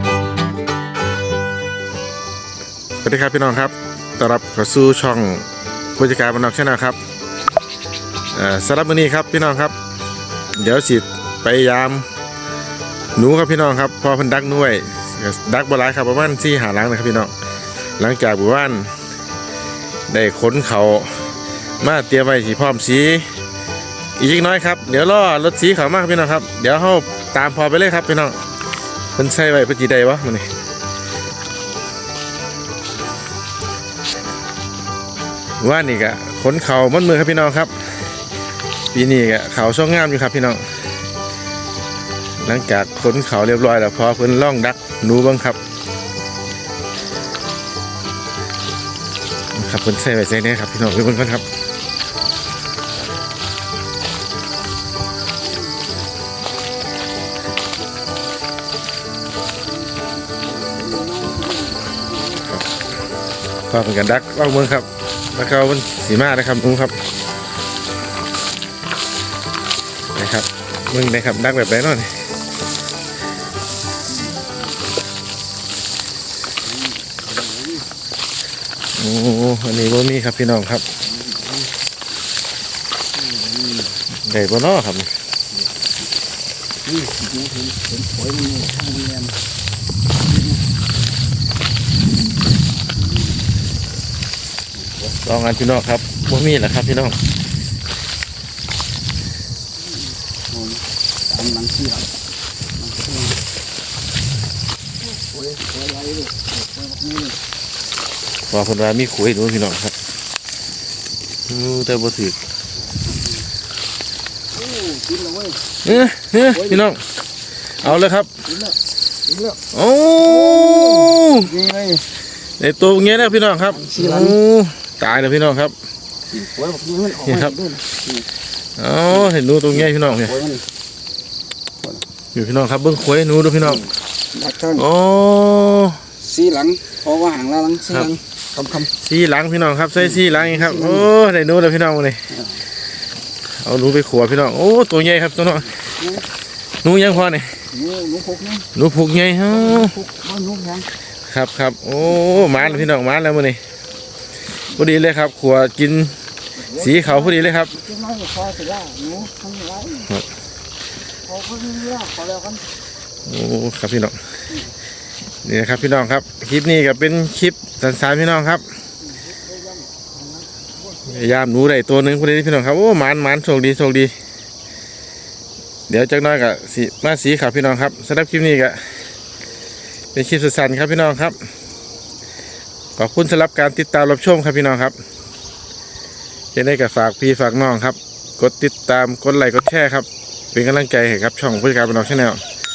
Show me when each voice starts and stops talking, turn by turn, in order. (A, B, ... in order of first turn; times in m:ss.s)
0:03.0-0:07.0 A
0:08.3-0:09.7 A
0:10.5-0:12.0 A
0:13.1-0:17.3 A
0:18.0-0:18.9 A
0:20.1-0:21.3 A
0:21.8-0:23.3 A
0:24.2-0:28.4 A
0:29.2-0:30.5 A
0:35.6-0:37.8 A
0:38.9-0:40.6 A
0:42.4-0:45.6 A
0:49.5-0:51.4 A
1:00.3-1:02.5 B
1:03.7-1:07.0 A
1:10.1-1:12.1 A
1:17.1-1:17.8 B
1:19.0-1:20.8 A
1:23.2-1:23.9 B
1:24.2-1:25.1 A
1:26.8-1:29.4 B
1:35.2-1:37.2 A
1:40.5-1:42.1 B
1:42.8-1:43.3 B
1:45.4-1:47.3 B
1:48.5-1:49.9 A
1:51.5-1:52.4 A
1:54.5-1:56.8 B
1:55.8-1:57.0 A
1:57.8-1:58.3 A
1:58.5-1:58.8 B
1:59.3-1:59.6 B
1:59.7-2:01.5 A
2:00.2-2:02.0 B
2:02.6-2:05.7 A
2:03.6-2:04.4 B
2:06.3-2:08.2 B
2:07.2-2:07.5 A
2:08.8-2:10.4 A
2:10.3-2:10.6 B
2:12.3-2:13.8 A
2:14.3-2:14.8 B
2:14.7-2:16.0 A
2:16.2-2:18.9 B
2:19.0-2:22.2 A
2:20.1-2:21.1 B
2:23.6-2:25.7 A
2:25.9-2:26.2 B
2:26.8-2:27.6 A
2:27.7-2:28.7 B
2:28.8-2:29.9 A
2:29.5-2:30.9 B
2:31.3-2:33.6 A
2:34.7-2:36.2 A
2:36.7-2:37.7 A
2:36.7-2:40.1 B
2:41.2-2:42.7 B
2:43.2-2:44.2 A
2:45.4-2:48.6 A
2:49.2-2:50.4 B
2:51.0-2:54.1 A
2:55.9-2:58.8 A
3:00.1-3:01.4 A
3:03.0-3:04.9 A
3:06.5-3:12.4 A